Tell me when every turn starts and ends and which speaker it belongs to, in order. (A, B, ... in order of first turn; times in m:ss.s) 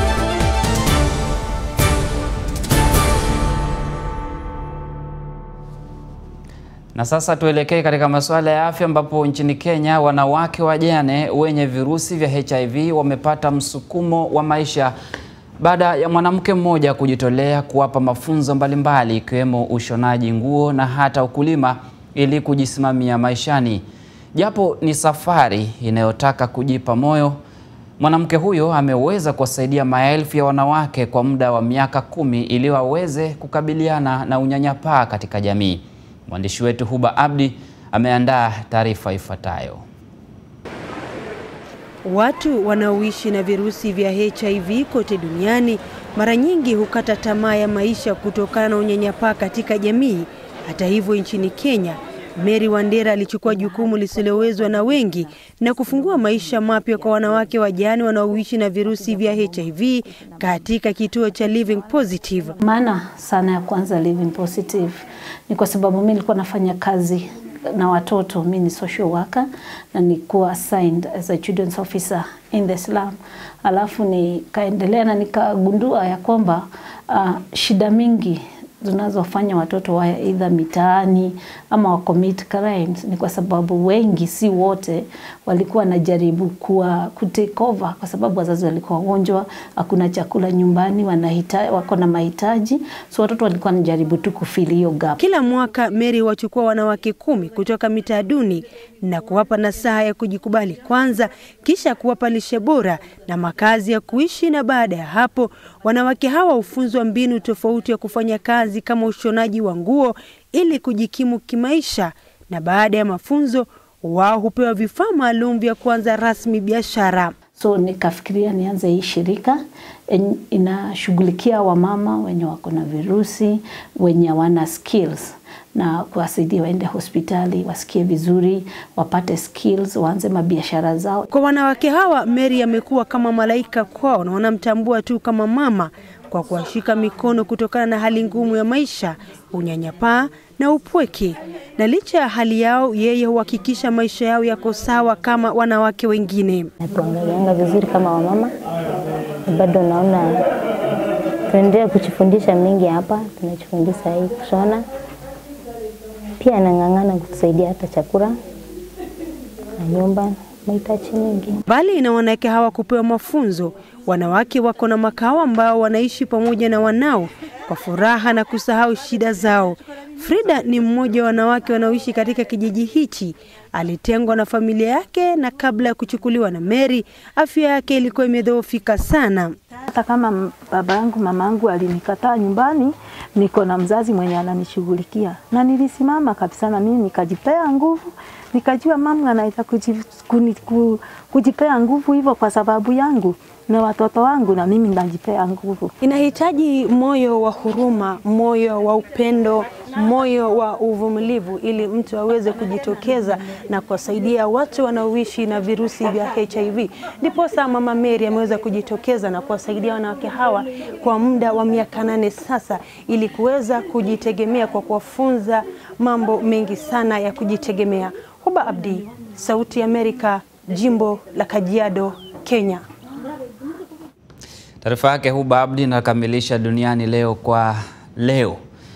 0:07.0-0:14.9 A
0:15.6-0:23.8 A
0:24.4-0:27.4 A
0:28.0-0:39.8 A
0:42.0-1:02.6 B
1:02.6-1:35.2 C
1:35.2-1:57.4 B
1:57.5-1:59.6 C
2:00.1-2:11.2 C
2:11.3-2:26.7 B
2:26.8-2:28.5 D
2:29.5-2:30.4 D
2:31.5-2:34.8 D
2:36.4-2:38.3 D
2:39.8-2:41.6 D
2:41.7-2:59.5 B
2:59.9-3:15.9 E
3:16.0-3:42.8 B
3:44.8-3:48.6 A